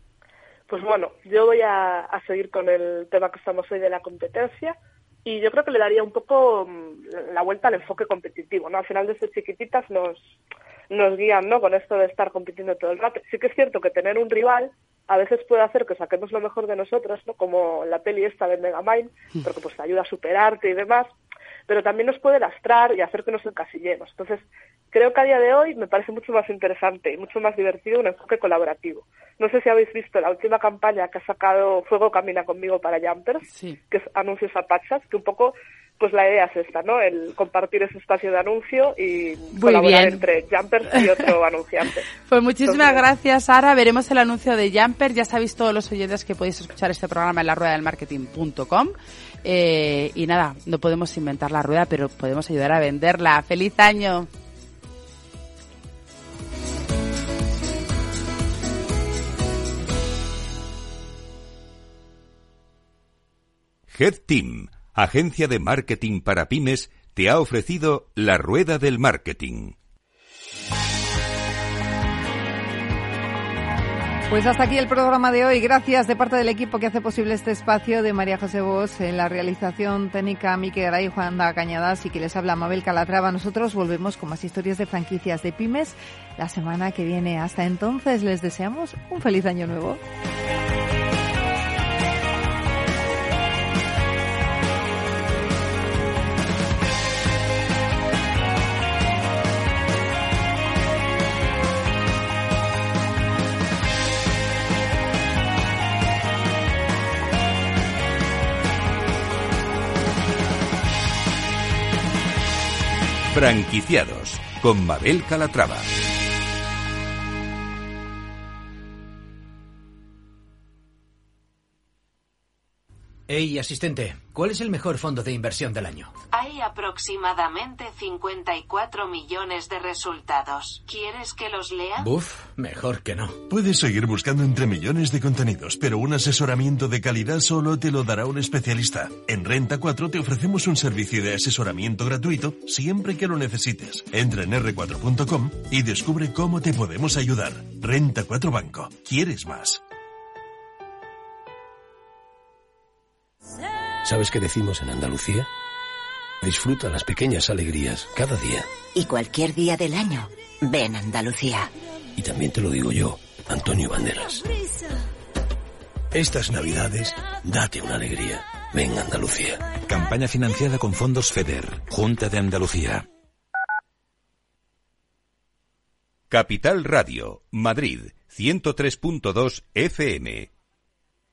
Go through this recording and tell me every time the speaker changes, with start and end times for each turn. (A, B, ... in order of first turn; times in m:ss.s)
0:00.7-0:10.2 A
0:10.9-0:21.1 A
0:21.7-0:42.1 A
0:33.5-0:33.8 B
0:39.6-0:40.2 B
0:42.3-0:54.3 B
0:42.6-0:43.0 A
1:03.9-1:09.8 C
1:14.3-1:30.0 D
1:53.3-1:55.9 C
2:03.3-2:06.1 E
2:06.3-2:12.1 F
2:12.0-2:13.4 E
2:13.5-2:29.8 G
2:34.0-2:35.5 H
2:36.4-2:38.7 H
2:39.0-2:41.7 I
2:42.2-2:44.5 H
2:46.1-2:49.6 H
2:49.7-2:53.0 J
2:56.3-3:00.5 C